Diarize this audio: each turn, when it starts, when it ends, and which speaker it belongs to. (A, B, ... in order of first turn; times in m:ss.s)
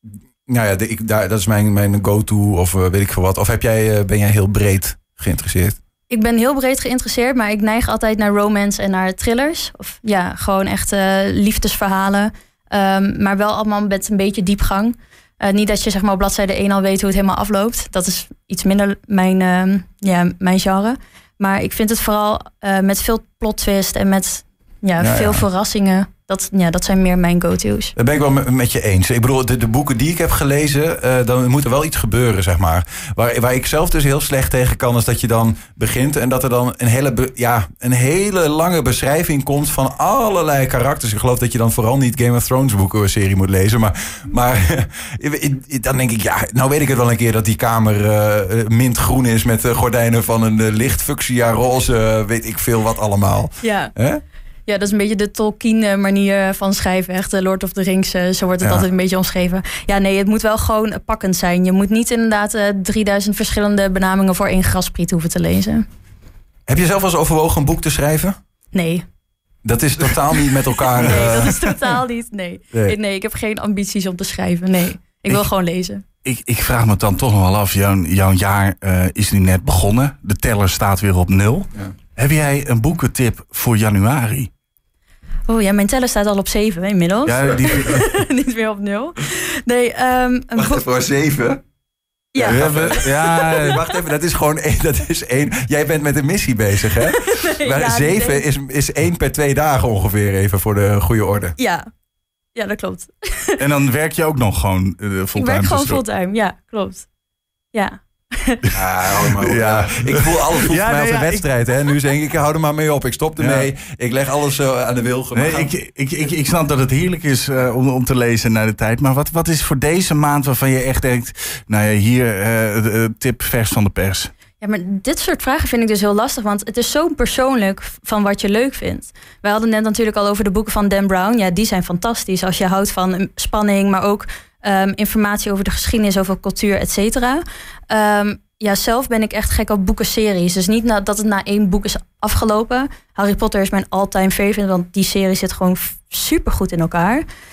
0:00.4-0:05.8 A
0:06.1-0:27.9 B
0:25.0-0:25.4 A
0:28.0-0:54.2 A
0:53.6-0:53.9 B
0:54.6-1:05.8 B
1:06.7-1:08.4 A
1:08.7-1:09.0 B
1:09.6-1:11.6 A
1:11.0-1:16.0 B
1:16.2-1:24.5 C
1:25.5-1:30.8 B
1:27.2-1:28.1 C
1:30.6-1:31.6 A
1:32.3-1:33.6 B
1:32.4-1:41.5 A
1:32.4-1:33.8 C
1:37.0-1:38.4 B
1:41.6-1:41.9 B
1:42.5-1:43.6 B
1:43.6-1:46.0 C
1:45.3-1:47.0 B
1:47.7-1:48.7 B
1:48.7-1:55.7 A
1:49.3-1:51.4 C
1:53.4-1:53.7 C
1:55.3-2:04.3 C
2:04.6-2:27.2 B